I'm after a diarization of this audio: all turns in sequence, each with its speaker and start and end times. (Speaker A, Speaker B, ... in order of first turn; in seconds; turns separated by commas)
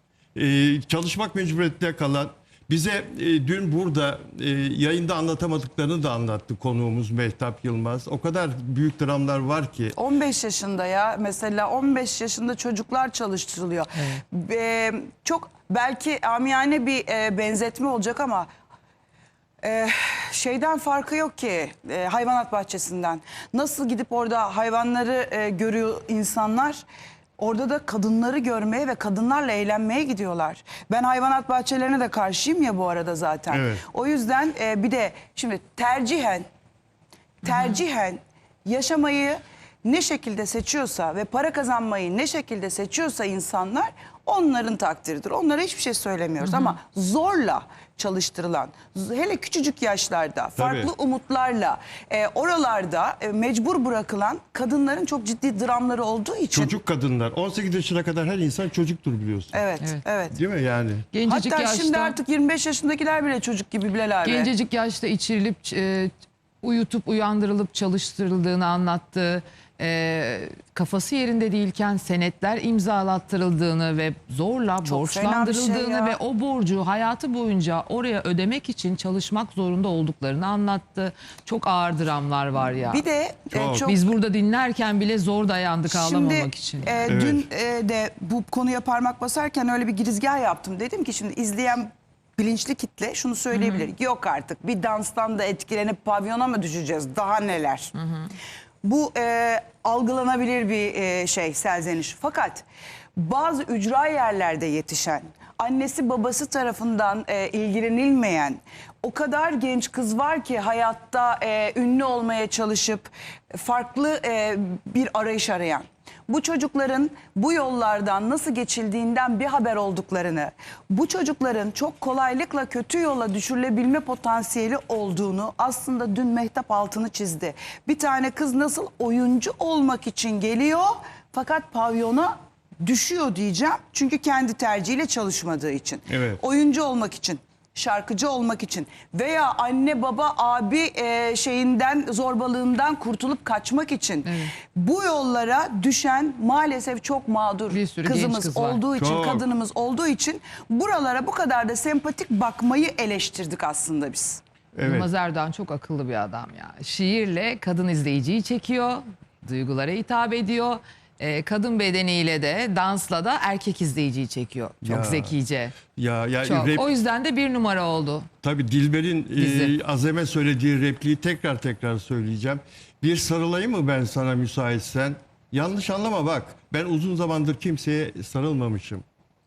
Speaker A: 0.3-9.9, Speaker B: 9.9-18.5, Speaker B: 19.6-26.8, Speaker B: 27.4-36.5, Speaker A: 33.5-33.8, Speaker B: 37.4-56.7, Speaker C: 37.4-37.8, Speaker C: 46.4-46.8, Speaker A: 50.6-50.9, Speaker A: 56.5-59.6, Speaker B: 59.5-60.4, Speaker A: 60.3-61.1, Speaker C: 61.1-62.2, Speaker B: 61.2-64.5, Speaker C: 64.2-83.0, Speaker B: 74.8-76.2, Speaker B: 82.6-84.0, Speaker A: 83.5-83.9, Speaker C: 83.8-87.1, Speaker B: 85.9-97.9, Speaker A: 87.1-87.5, Speaker C: 93.5-93.9, Speaker C: 98.0-98.3, Speaker B: 98.8-102.6, Speaker B: 103.2-154.4, Speaker A: 136.1-136.4, Speaker C: 144.2-144.5, Speaker C: 147.7-148.8, Speaker A: 148.9-149.4, Speaker A: 154.7-155.1, Speaker C: 154.8-165.7, Speaker A: 164.8-165.3, Speaker A: 165.9-166.9, Speaker C: 166.4-168.3, Speaker A: 168.4-179.0, Speaker C: 169.4-169.7